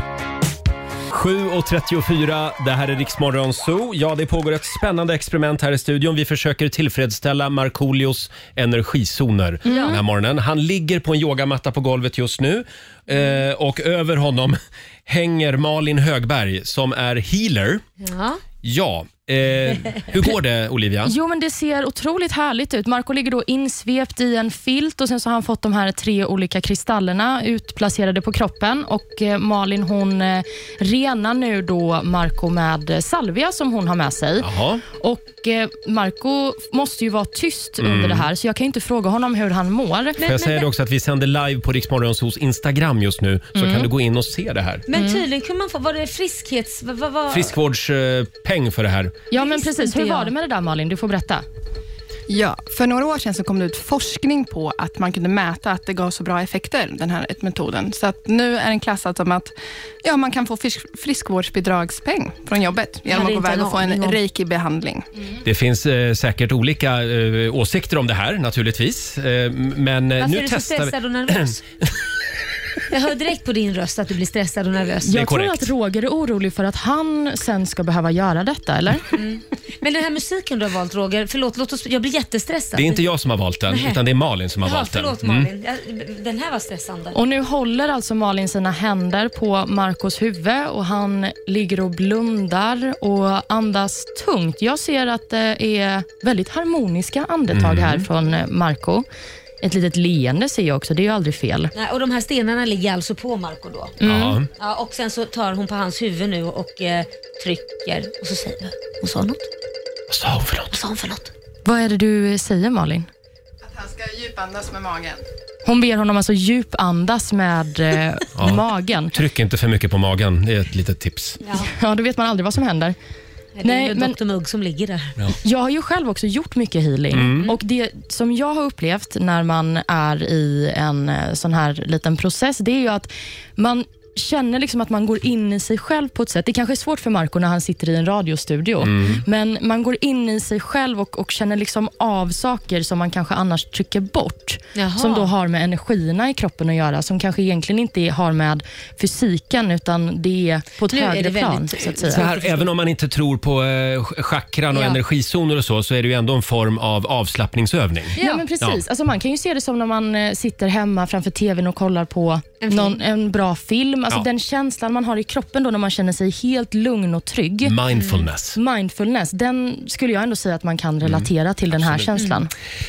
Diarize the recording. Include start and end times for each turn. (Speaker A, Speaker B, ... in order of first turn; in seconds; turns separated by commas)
Speaker A: 1.1-17.8, Speaker B: 9.7-10.0, Speaker B: 18.0-18.4, Speaker A: 18.6-21.1, Speaker C: 21.0-40.2, Speaker A: 34.4-34.8, Speaker A: 37.8-38.3, Speaker B: 40.2-40.7, Speaker A: 40.2-44.8, Speaker C: 43.5-43.9, Speaker B: 44.9-47.5, Speaker C: 44.9-45.2, Speaker A: 47.3-49.1, Speaker C: 49.3-51.4, Speaker B: 49.3-50.3, Speaker D: 52.3-65.1, Speaker B: 63.1-64.2, Speaker A: 65.4-71.5, Speaker B: 70.2-71.6, Speaker B: 72.9-75.2, Speaker C: 75.0-79.0, Speaker A: 75.1-75.7, Speaker B: 79.1-83.0, Speaker A: 82.8-85.5, Speaker B: 83.7-84.0, Speaker B: 84.6-87.2, Speaker C: 87.1-99.0, Speaker A: 97.5-98.0, Speaker C: 99.6-101.7, Speaker B: 101.7-104.0, Speaker C: 104.0-104.4, Speaker A: 104.0-104.5, Speaker B: 104.6-109.5, Speaker A: 110.1-110.8, Speaker B: 110.7-111.3, Speaker C: 111.6-113.1, Speaker D: 113.6-115.2, Speaker C: 115.6-119.2, Speaker A: 118.4-121.4, Speaker B: 121.4-121.7, Speaker C: 121.7-122.9, Speaker B: 123.5-125.2, Speaker C: 123.6-124.2, Speaker C: 125.4-152.2, Speaker A: 127.1-127.5, Speaker A: 138.8-139.2, Speaker B: 144.7-145.3, Speaker B: 150.9-152.7, Speaker A: 152.1-158.8, Speaker B: 154.7-155.0, Speaker C: 158.1-167.7, Speaker B: 158.2-158.4, Speaker B: 162.6-163.0, Speaker A: 167.6-168.6, Speaker B: 167.9-168.3, Speaker C: 168.6-172.5, Speaker A: 171.0-172.1